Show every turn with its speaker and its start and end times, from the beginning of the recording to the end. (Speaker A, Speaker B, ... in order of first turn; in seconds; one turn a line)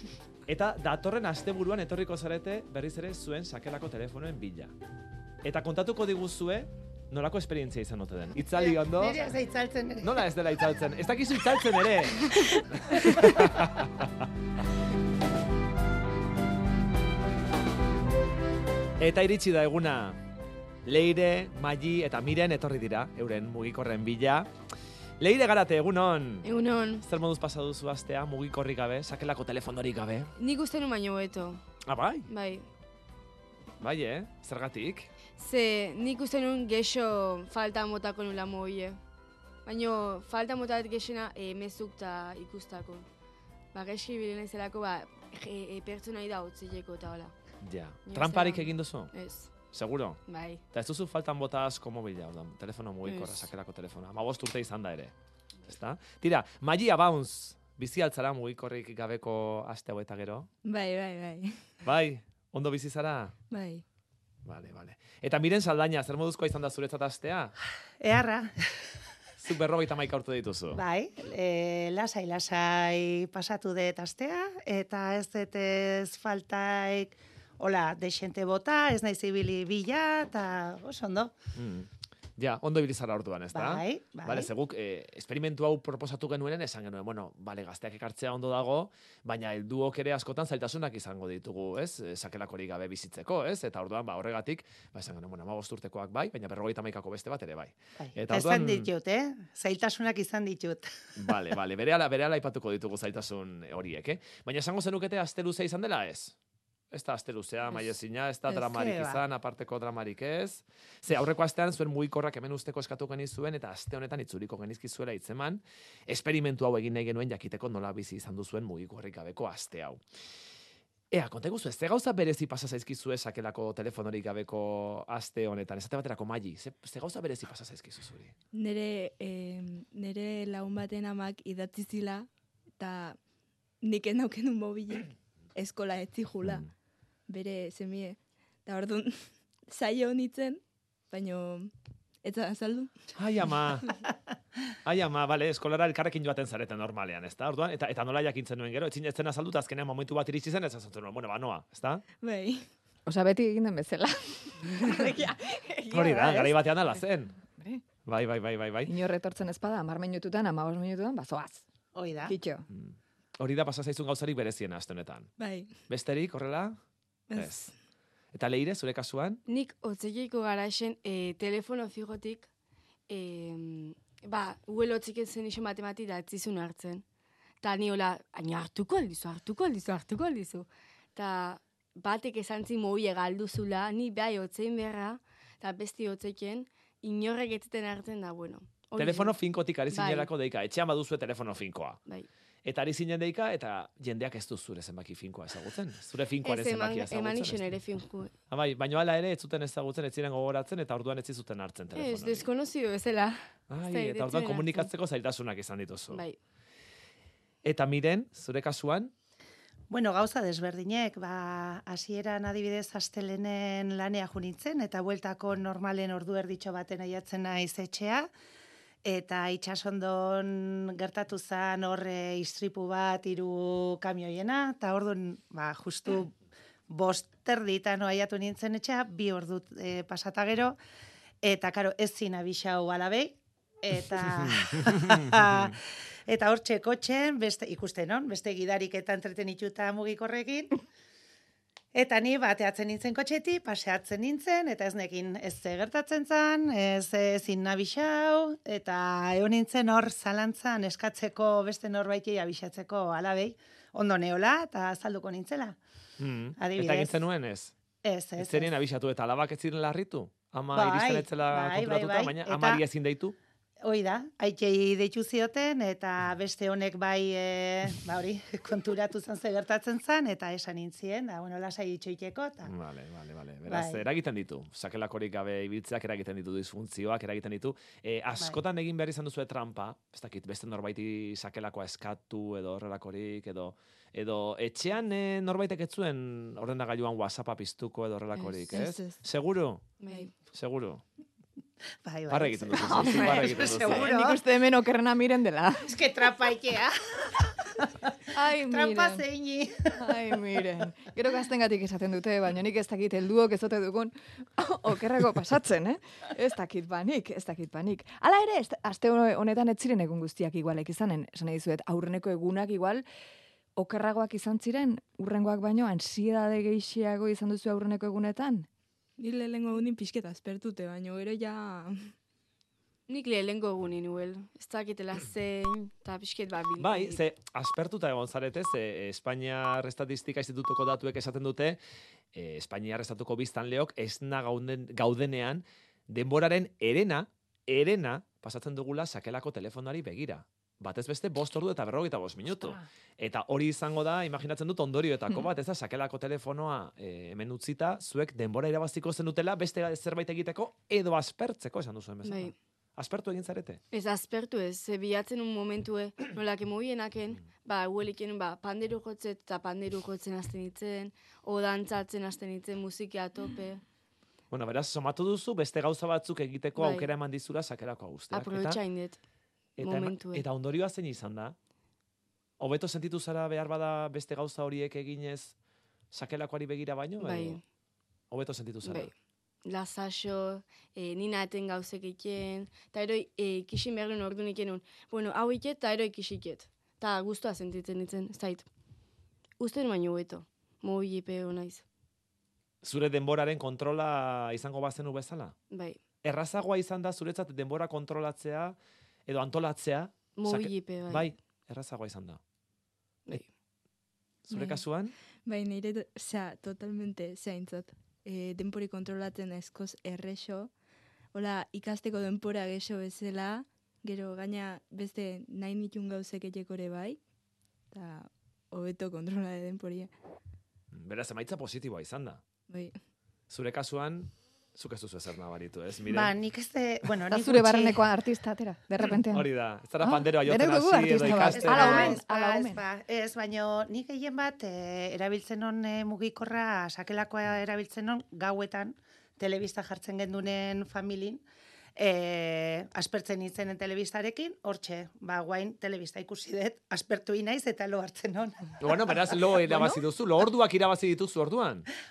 Speaker A: 0.5-4.7
Speaker A: 5.4-9.2
Speaker B: 8.5-10.2
Speaker A: 10.0-12.3
Speaker A: 12.9-14.1
Speaker A: 19.0-20.2
Speaker A: 20.8-24.5
Speaker A: 25.2-26.5
Speaker C: 26.4-27.0
Speaker A: 27.0-30.3
Speaker C: 30.4-31.6
Speaker A: 31.8-32.3
Speaker C: 32.3-32.7
Speaker A: 33.8-35.1
Speaker C: 35.4-39.0
Speaker C: 39.6-43.1
Speaker C: 43.7-47.3
Speaker A: 47.6-49.1
Speaker C: 48.0-49.5
Speaker A: 49.7-55.1
Speaker C: 50.3-50.6
Speaker C: 53.0-53.5
Speaker A: 55.7-60.5
Speaker D: 60.6-61.6
Speaker A: 61.8-63.3
Speaker D: 63.5-63.8
Speaker A: 64.4-67.5
Speaker B: 68.0-68.5
Speaker A: 69.4-70.8
Speaker B: 70.7-81.3
Speaker A: 81.5-98.9
Speaker B: 83.5-84.5
Speaker B: 98.0-101.3
Speaker A: 101.2-106.3
Speaker A: 106.9-120.0
Speaker B: 108.5-109.2
Speaker A: 121.1-128.3
Speaker D: 128.5-132.3
Speaker D: 132.8-133.2
Speaker D: 133.8-136.7
Speaker D: 137.3-141.7
Speaker D: 142.2-142.9
Speaker A: 143.1-143.9
Speaker A: 144.8-152.1
Speaker D: 152.2-152.7
Speaker E: 153.1-157.0
Speaker A: 155.9-157.3
Speaker E: 157.5-157.8
Speaker A: 158.0-158.9
Speaker E: 158.8-161.6
Speaker B: 161.9-162.3
Speaker E: 162.2-162.7
Speaker A: 162.7-165.3
Speaker D: 165.4-165.7
Speaker A: 165.9-166.8
Speaker D: 167.3-167.7
Speaker A: 167.3-167.7
Speaker A: 168.3-169.4
Speaker C: 169.5-172.5
Speaker C: 173.1-177.0
Speaker C: 177.6-189.3
Speaker A: 189.0-192.0
Speaker C: 189.9-190.3
Speaker A: 192.6-197.6
Speaker C: 196.4-198.3
Speaker A: 198.5-202.5
Speaker C: 201.9-204.9
Speaker A: 203.7-206.2
Speaker C: 206.1-206.4
Speaker A: 207.6-209.1
Speaker B: 209.9-218.3
Speaker B: 219.0-226.3
Speaker B: 226.9-230.7
Speaker B: 231.4-240.7
Speaker A: 234.8-235.1
Speaker B: 241.9-255.8
Speaker A: 256.2-257.7
Speaker B: 256.6-257.2
Speaker B: 258.0-258.7
Speaker A: 258.4-263.4
Speaker B: 260.7-262.8
Speaker B: 263.8-272.7
Speaker A: 272.6-289.9
Speaker B: 273.7-274.0
Speaker C: 288.4-288.7
Speaker D: 288.7-289.2
Speaker C: 290.0-290.3
Speaker A: 290.5-291.0
Speaker B: 292.0-294.4
Speaker A: 292.3-294.1
Speaker E: 292.7-296.0
Speaker B: 295.9-297.9
Speaker E: 298.3-299.2
Speaker B: 298.6-300.2
Speaker E: 299.9-313.1
Speaker E: 313.8-318.7
Speaker D: 319.2-322.1
Speaker C: 323.1-327.2
Speaker A: 326.8-331.8
Speaker A: 332.3-353.8
Speaker C: 352.2-352.5
Speaker C: 353.9-363.8
Speaker A: 364.5-368.8
Speaker C: 366.8-367.1
Speaker C: 368.3-369.2
Speaker A: 369.8-371.6
Speaker C: 369.8-370.4
Speaker A: 372.6-375.5
Speaker A: 376.1-377.6
Speaker C: 377.2-377.6
Speaker A: 378.3-379.1
Speaker C: 378.8-379.1
Speaker C: 379.6-388.7
Speaker C: 389.6-391.8
Speaker A: 392.8-395.5
Speaker C: 395.7-396.0
Speaker A: 396.2-402.4
Speaker C: 400.4-401.3
Speaker A: 404.5-405.1
Speaker D: 404.5-404.8
Speaker D: 405.4-410.7
Speaker D: 411.3-417.2
Speaker D: 417.9-420.1
Speaker A: 420.9-422.4
Speaker D: 422.7-422.9
Speaker A: 423.5-426.3
Speaker B: 426.1-428.0
Speaker E: 427.3-432.8
Speaker A: 429.3-432.1
Speaker B: 431.2-441.4
Speaker B: 442.0-449.1
Speaker A: 448.8-451.9
Speaker E: 449.6-450.0